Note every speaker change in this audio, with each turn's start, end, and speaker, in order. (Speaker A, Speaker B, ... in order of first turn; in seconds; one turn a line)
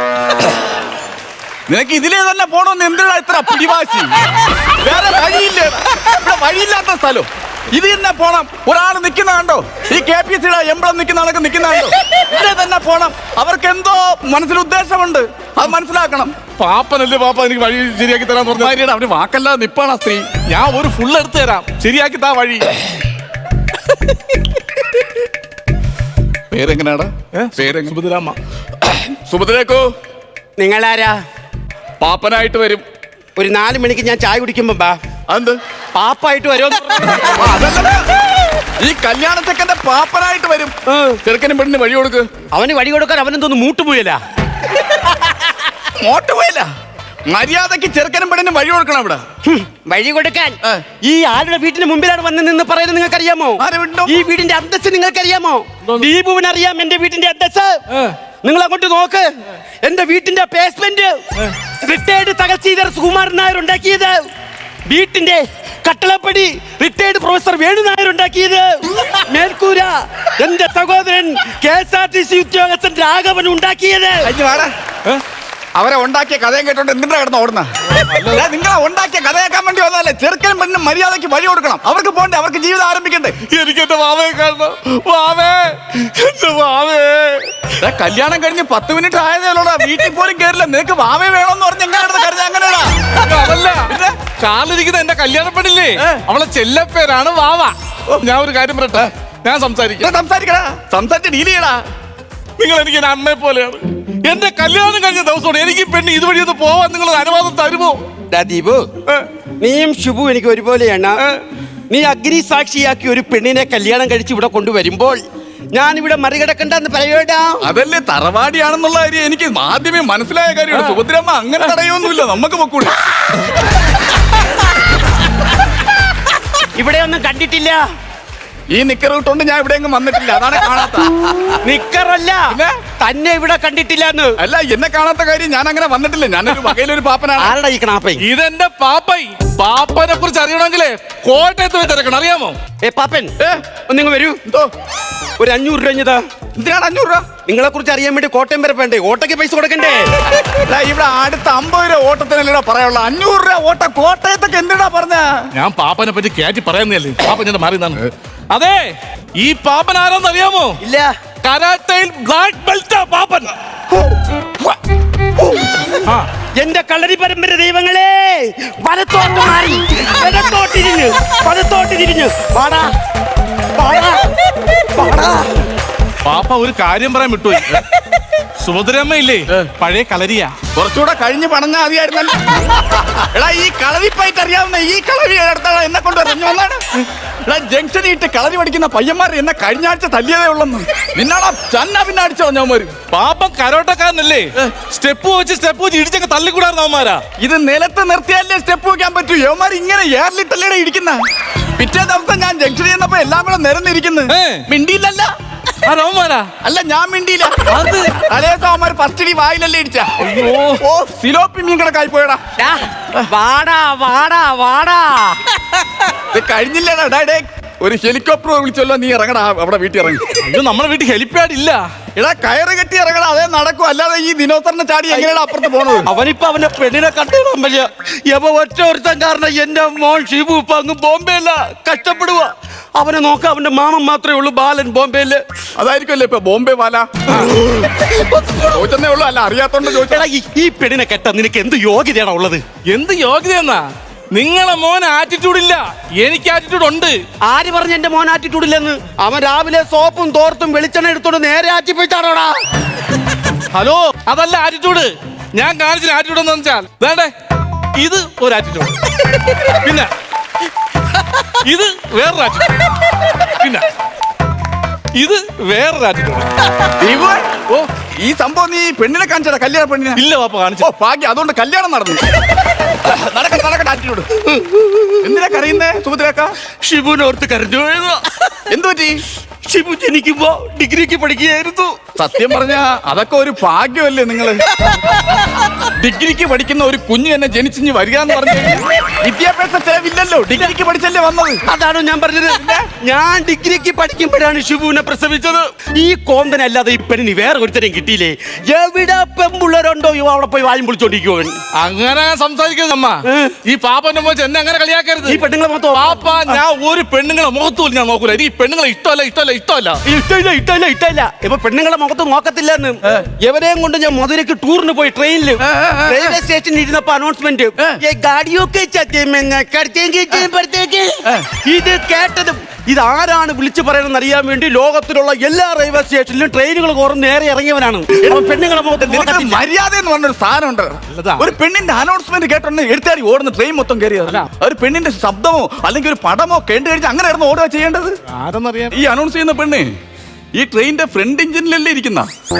Speaker A: 1.7-4.1
Speaker A: 4.7-16.3
Speaker B: 16.6-18.8
Speaker A: 18.5-20.3
Speaker B: 20.5-22.8
Speaker A: 26.5-27.9
Speaker B: 27.3-28.4
Speaker A: 28.9-29.9
Speaker C: 30.6-31.1
Speaker A: 32.0-32.8
Speaker C: 33.4-35.0
Speaker A: 35.3-35.6
Speaker C: 35.9-37.4
Speaker A: 37.2-42.3
Speaker C: 40.9-41.2
Speaker C: 42.5-44.2
Speaker C: 44.8-45.5
Speaker A: 45.9-46.7
Speaker A: 47.3-49.2
Speaker C: 49.5-57.8
Speaker A: 53.6-54.2
Speaker B: 57.9-58.1
Speaker C: 58.4-59.3
Speaker C: 59.8-64.2
Speaker C: 64.9-74.3
Speaker A: 74.2-74.7
Speaker A: 75.8-77.7
Speaker B: 77.9-78.5
Speaker A: 78.3-83.4
Speaker B: 83.5-87.7
Speaker A: 87.8-93.2
Speaker B: 93.2-100.1
Speaker A: 93.9-94.2
Speaker A: 100.0-101.8
Speaker B: 102.6-108.0
Speaker C: 108.3-109.0
Speaker C: 109.6-111.2
Speaker C: 111.9-115.2
Speaker C: 115.7-117.7
Speaker A: 117.6-122.9
Speaker C: 126.8-127.8
Speaker A: 128.7-131.4
Speaker C: 131.6-134.4
Speaker A: 134.4-137.5
Speaker C: 137.4-138.2
Speaker B: 138.2-142.6
Speaker C: 142.8-143.3
Speaker C: 143.9-144.4
Speaker C: 145.4-146.2
Speaker A: 146.6-147.2
Speaker C: 147.4-150.2
Speaker A: 150.4-155.5
Speaker B: 155.5-160.8
Speaker C: 160.8-161.1
Speaker B: 161.4-163.5
Speaker C: 165.4-166.0
Speaker C: 166.6-172.9
Speaker C: 173.7-175.7
Speaker B: 176.2-177.8
Speaker B: 178.6-180.6
Speaker A: 180.7-192.9
Speaker B: 193.1-197.2
Speaker A: 197.4-201.2
Speaker A: 201.8-205.3
Speaker B: 204.3-204.7
Speaker B: 205.8-206.5
Speaker A: 206.6-210.1
Speaker B: 207.7-208.1
Speaker B: 210.2-210.8
Speaker A: 210.8-212.4
Speaker C: 212.6-215.4
Speaker A: 216.3-220.3
Speaker B: 220.4-221.8
Speaker A: 222.1-226.1
Speaker C: 226.1-235.4
Speaker A: 235.8-237.1
Speaker C: 237.6-238.8
Speaker A: 238.6-240.3
Speaker C: 239.9-242.6
Speaker B: 242.9-247.2
Speaker C: 247.5-252.6
Speaker B: 253.7-257.3
Speaker B: 258.0-260.1
Speaker B: 261.4-262.8
Speaker B: 263.4-263.9
Speaker B: 265.1-266.5
Speaker A: 267.0-267.6
Speaker A: 268.2-270.2
Speaker B: 270.1-270.9
Speaker A: 270.8-272.3
Speaker A: 272.9-274.3
Speaker C: 274.4-275.2
Speaker A: 275.2-276.6
Speaker C: 276.8-278.4
Speaker A: 278.7-279.2
Speaker C: 279.6-282.0
Speaker A: 282.1-284.6
Speaker A: 285.9-291.6
Speaker C: 291.6-301.5
Speaker A: 292.5-292.9
Speaker B: 301.8-310.0
Speaker C: 303.2-303.6
Speaker C: 305.2-306.6
Speaker C: 310.0-329.6
Speaker A: 315.6-316.4
Speaker A: 329.0-338.1
Speaker B: 331.1-331.5
Speaker B: 338.3-338.9
Speaker A: 338.9-339.9
Speaker A: 340.5-342.3